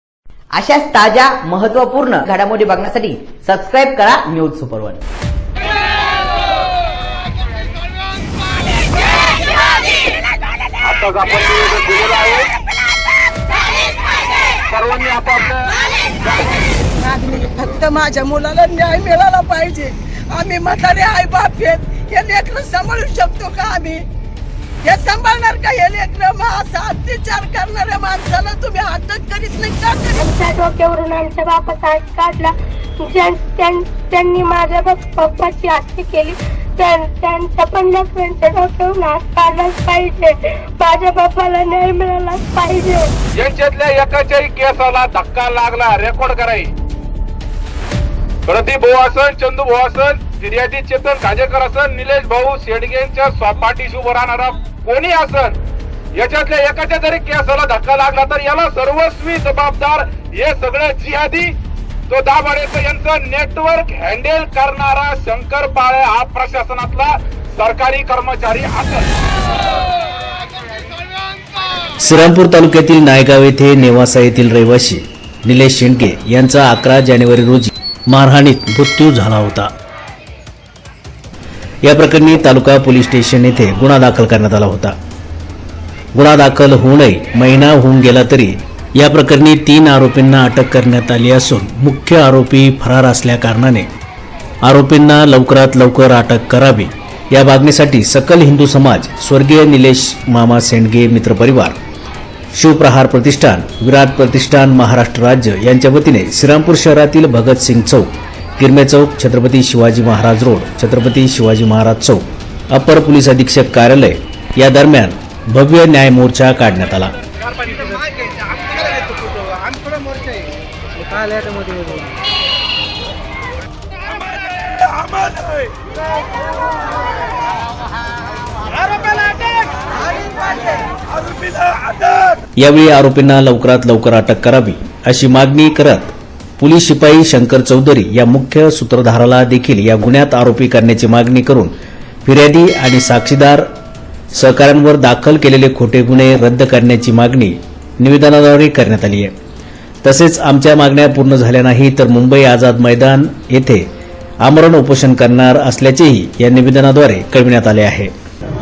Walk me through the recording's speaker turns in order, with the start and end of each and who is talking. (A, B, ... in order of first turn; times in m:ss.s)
0:00.5-0:05.0 A
0:11.2-0:12.4 B
0:14.8-0:15.4 B
0:17.0-0:24.0 C
0:24.8-0:30.2 C
0:30.1-0:43.1 D
0:43.3-0:46.7 B
0:48.4-0:55.6 B
0:56.1-1:01.5 B
1:02.1-1:09.1 B
1:12.0-1:19.7 E
1:21.8-1:24.9 E
1:26.1-1:33.9 E
1:34.6-1:41.8 E
1:42.5-1:48.1 E
1:48.6-1:57.1 E
2:09.7-2:10.9 C
2:12.6-2:21.7 E
2:22.2-2:23.6 E
2:24.3-2:29.3 E
2:30.0-2:33.9 E
2:34.4-2:38.1 E